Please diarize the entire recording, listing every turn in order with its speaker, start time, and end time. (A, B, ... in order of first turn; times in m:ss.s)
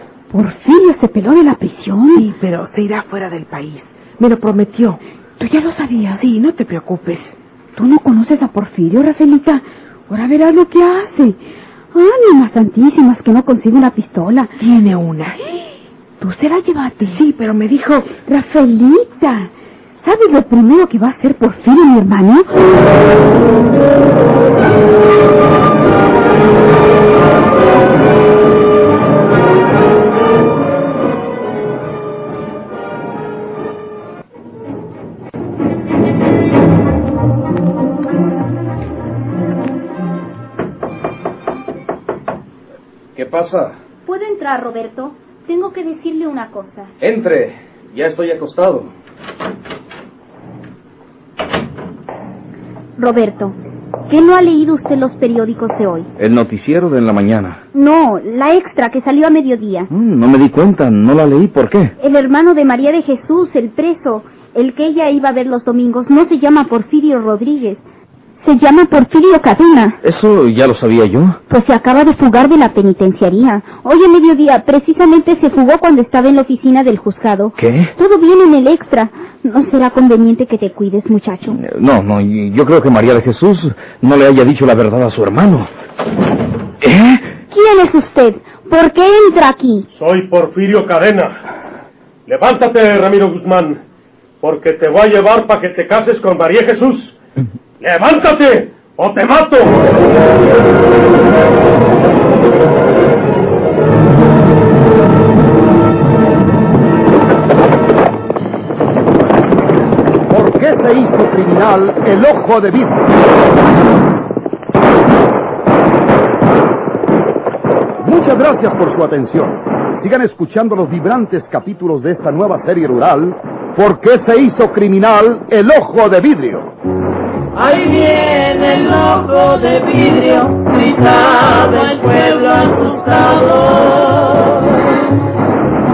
0:00.3-0:02.3 A
0:02.1-0:05.0 B
0:05.4-0:06.2 A
0:06.2-0:07.4 B
0:07.8-0:11.4 A
0:11.9-0:14.5 A
0:14.6-0:15.6 B
0:16.2-0:17.2 A
0:17.0-0:18.1 B
0:18.2-0:19.5 A
0:20.0-0:22.5 A
0:43.2-0:43.7 C
0:44.0-0:46.9 D
0:47.0-0:48.9 C
0:53.0-0:53.6 D
0:54.1-0:56.1 D
0:56.2-0:57.6 C
0:57.7-0:59.9 D
0:59.9-1:01.9 C
1:02.0-1:07.8 D
1:08.4-1:10.0 D
1:10.0-1:11.4 C
1:11.5-1:21.6 D
1:17.6-1:17.9 C
1:21.6-1:25.7 C
1:26.8-1:27.3 C
1:27.5-1:29.9 D
1:29.9-1:31.4 E
1:32.3-1:33.8 E
1:34.4-1:37.2 E
1:37.8-1:39.9 E
1:50.3-1:53.1 F
1:58.0-2:06.7 F
2:07.5-2:14.9 G